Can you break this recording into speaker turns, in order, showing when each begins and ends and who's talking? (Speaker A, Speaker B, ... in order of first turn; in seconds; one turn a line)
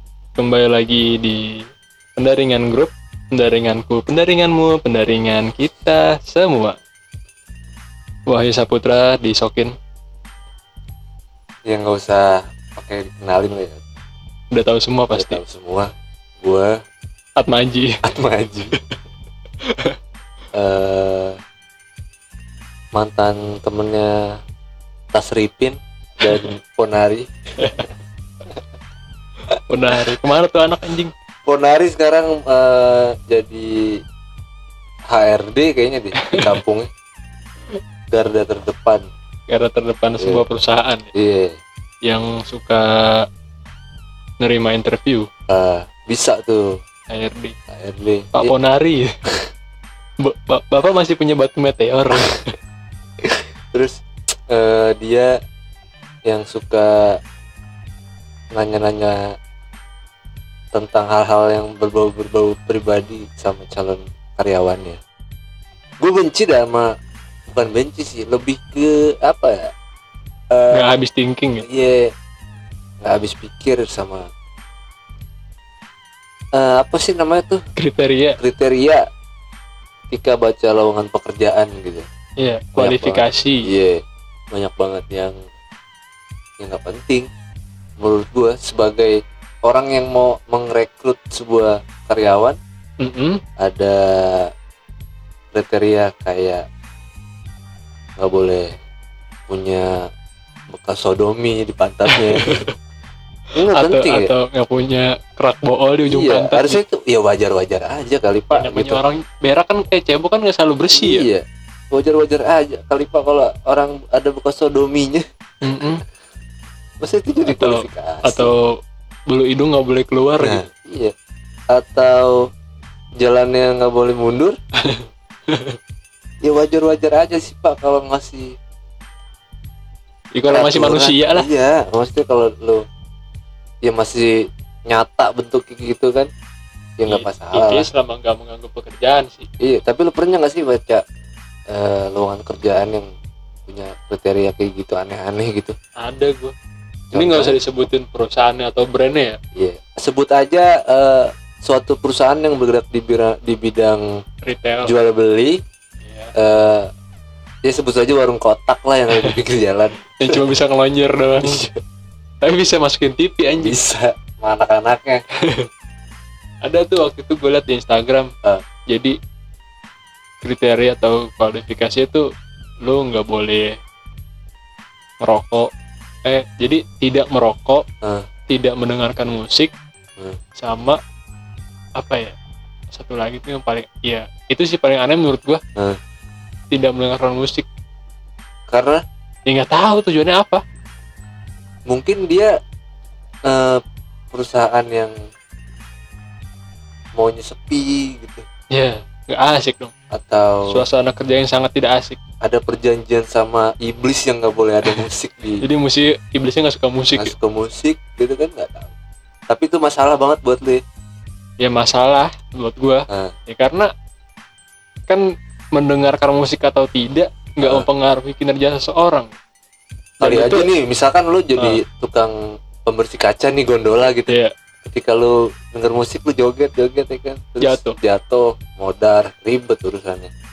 Speaker A: 0.4-6.8
Speaker A: 8.3-9.7
Speaker B: 11.7-13.8
Speaker A: 14.5-15.4
Speaker B: 15.1-16.8
Speaker A: 17.4-18.0
Speaker B: 18.0-18.8
Speaker A: 19.6-20.0
Speaker B: 20.5-21.4
Speaker B: 22.9-24.4
Speaker B: 25.1-27.3
Speaker A: 29.7-31.1
Speaker B: 31.5-34.0
Speaker B: 35.1-36.9
Speaker A: 36.2-36.6
Speaker B: 38.1-39.1
Speaker A: 39.5-41.1
Speaker B: 40.2-40.5
Speaker B: 41.1-41.6
Speaker A: 42.1-43.3
Speaker A: 44.4-45.3
Speaker B: 45.5-46.8
Speaker A: 47.1-47.5
Speaker B: 47.7-48.5
Speaker A: 48.4-49.1
Speaker A: 50.2-52.5
Speaker B: 53.2-55.4
Speaker B: 56.3-57.2
Speaker B: 58.5-59.4
Speaker B: 60.7-65.0
Speaker B: 66.0-67.0
Speaker B: 67.5-69.7
Speaker B: 70.5-70.9
Speaker A: 70.7-71.7
Speaker B: 71.6-72.1
Speaker B: 73.0-74.3
Speaker B: 76.5-77.6
Speaker A: 77.8-78.4
Speaker B: 78.4-79.1
Speaker B: 80.1-82.1
Speaker A: 82.4-83.7
Speaker B: 82.8-85.4
Speaker B: 86.6-87.3
Speaker B: 88.0-92.6
Speaker A: 93.0-93.4
Speaker B: 93.6-94.5
Speaker B: 95.5-96.7
Speaker B: 98.2-98.8
Speaker B: 99.5-100.1
Speaker B: 100.7-102.6
Speaker A: 102.1-102.7
Speaker B: 103.5-104.3
Speaker A: 103.7-106.8
Speaker B: 106.1-109.0
Speaker A: 108.5-111.3
Speaker B: 110.9-115.2
Speaker A: 115.6-116.0
Speaker B: 117.0-118.5
Speaker A: 117.5-120.6
Speaker B: 120.4-121.1
Speaker B: 121.7-122.5
Speaker B: 123.2-124.6
Speaker A: 124.8-125.8
Speaker B: 126.4-128.6
Speaker A: 130.3-131.5
Speaker B: 130.5-132.8
Speaker B: 133.8-136.3
Speaker B: 137.0-137.9
Speaker A: 137.1-139.5
Speaker B: 139.6-141.0
Speaker B: 141.7-143.1
Speaker B: 143.7-145.8
Speaker A: 146.0-146.5
Speaker B: 147.1-147.6
Speaker A: 147.1-149.4
Speaker B: 149.6-154.2
Speaker A: 154.4-154.9
Speaker B: 154.8-155.6
Speaker A: 156.0-156.3
Speaker B: 156.3-156.9
Speaker B: 157.6-160.4
Speaker A: 160.2-161.7
Speaker B: 161.4-161.8
Speaker A: 162.4-163.8
Speaker B: 163.6-165.2
Speaker A: 165.4-165.7
Speaker A: 166.6-168.3
Speaker A: 168.9-169.2
Speaker A: 170.4-172.3
Speaker A: 172.8-173.8
Speaker A: 175.2-175.7
Speaker A: 176.2-177.8
Speaker B: 178.0-178.3
Speaker A: 178.5-179.7
Speaker A: 180.6-181.0
Speaker A: 182.0-182.4
Speaker A: 182.9-185.6
Speaker A: 186.7-187.7
Speaker B: 188.7-189.0
Speaker A: 189.5-190.6
Speaker B: 191.9-192.6
Speaker B: 193.5-195.2
Speaker B: 197.2-198.4
Speaker A: 198.7-199.9
Speaker B: 200.1-200.8
Speaker A: 200.7-202.2
Speaker B: 202.4-205.7
Speaker A: 205.6-207.3
Speaker B: 207.2-208.9
Speaker B: 209.5-210.8
Speaker A: 211.6-213.9
Speaker A: 215.1-219.3
Speaker B: 217.6-217.9
Speaker A: 220.2-220.7
Speaker B: 220.2-224.3
Speaker A: 224.3-224.5
Speaker B: 224.8-230.3
Speaker A: 227.6-228.0